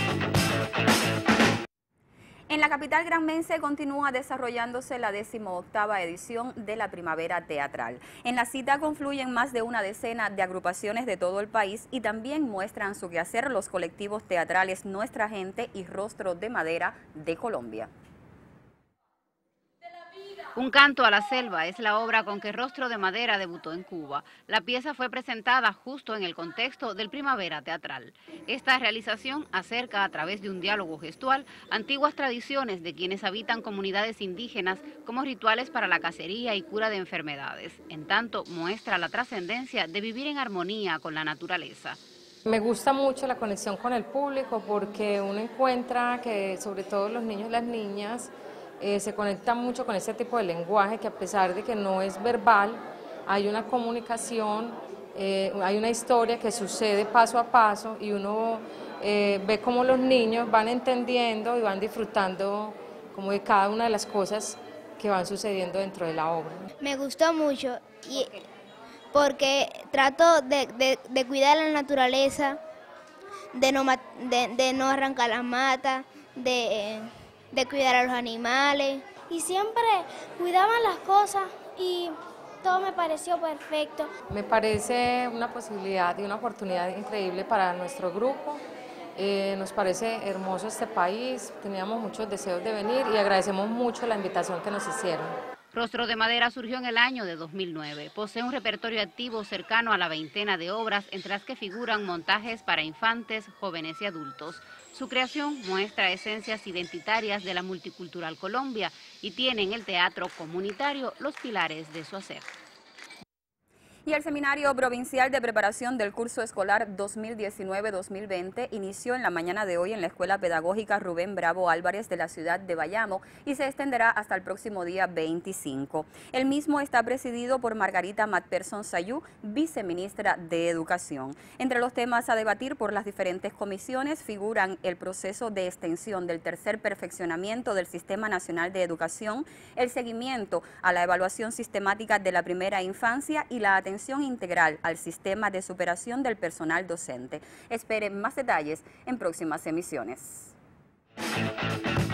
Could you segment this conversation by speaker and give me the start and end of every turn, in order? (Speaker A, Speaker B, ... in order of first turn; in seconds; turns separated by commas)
Speaker A: 2.5-17.9, Speaker B: 20.5-42.0, Speaker C: 42.5-66.7, Speaker D: 66.8-68.5, Speaker D: 69.1-72.6, Speaker D: 73.5-79.1, Speaker E: 79.3-84.1, Speaker C: 84.3-88.6, Speaker C: 89.2-95.4, Speaker B: 95.7-112.5, Speaker A: 114.0-150.5